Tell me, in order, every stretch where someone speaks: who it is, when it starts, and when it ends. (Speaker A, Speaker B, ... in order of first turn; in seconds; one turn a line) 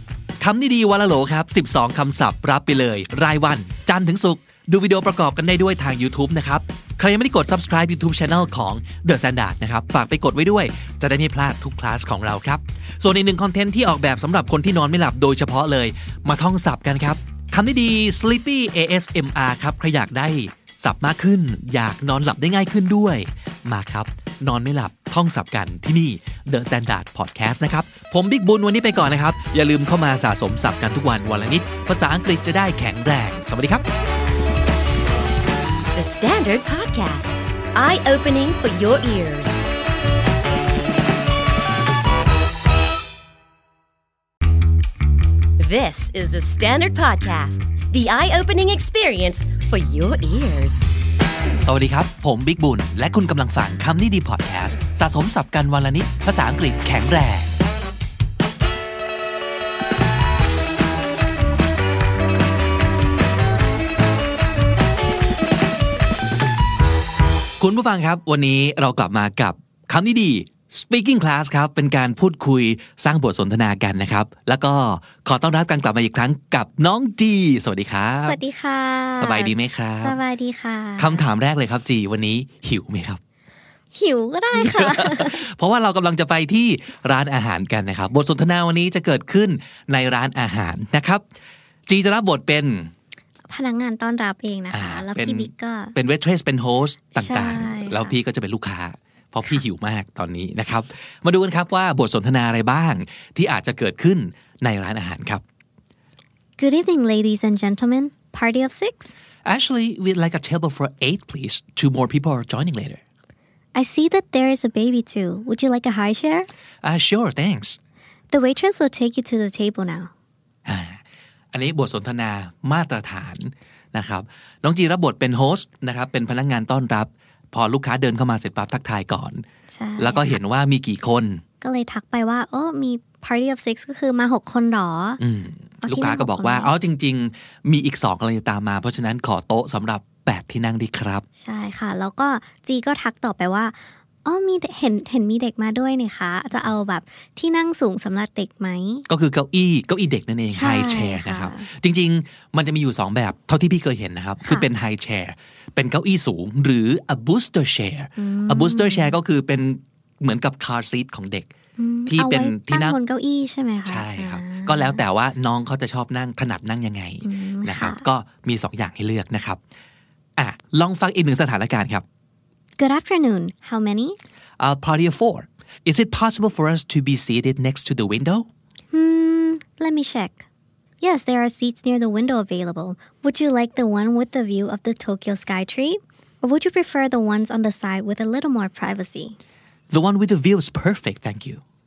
Speaker A: 0.4-33.8
Speaker B: 35.9-39.6
Speaker B: 45.6-50.9
Speaker A: 51.6-57.5
Speaker A: 67.6-78.4
Speaker C: 78.2-81.3
Speaker A: 79.1-80.2
Speaker A: 81.0-83.2
Speaker C: 83.9-85.5
Speaker A: 84.5-91.2
Speaker A: 91.9-92.9
Speaker C: 93.5-95.9
Speaker A: 94.7-105.4
Speaker C: 97.2-98.2
Speaker C: 106.6-109.1
Speaker A: 109.4-113.0
Speaker C: 113.7-116.5
Speaker A: 116.8-117.8
Speaker C: 118.3-120.1
Speaker A: 120.7-121.0
Speaker A: 121.5-129.4
Speaker C: 129.7-130.4
Speaker A: 130.0-131.4
Speaker C: 131.6-135.2
Speaker A: 135.2-141.2
Speaker C: 135.8-136.7
Speaker C: 141.4-149.1
Speaker A: 149.1-161.5
Speaker C: 150.5-151.7
Speaker C: 154.4-154.7
Speaker C: 158.2-159.2
Speaker C: 161.8-165.0
Speaker A: 162.1-162.9
Speaker A: 163.8-169.6
Speaker C: 167.2-168.1
Speaker A: 170.4-172.0
Speaker C: 172.8-174.2
Speaker A: 174.6-178.5
Speaker C: 178.9-180.4
Speaker C: 181.0-189.4
Speaker A: 189.9-191.6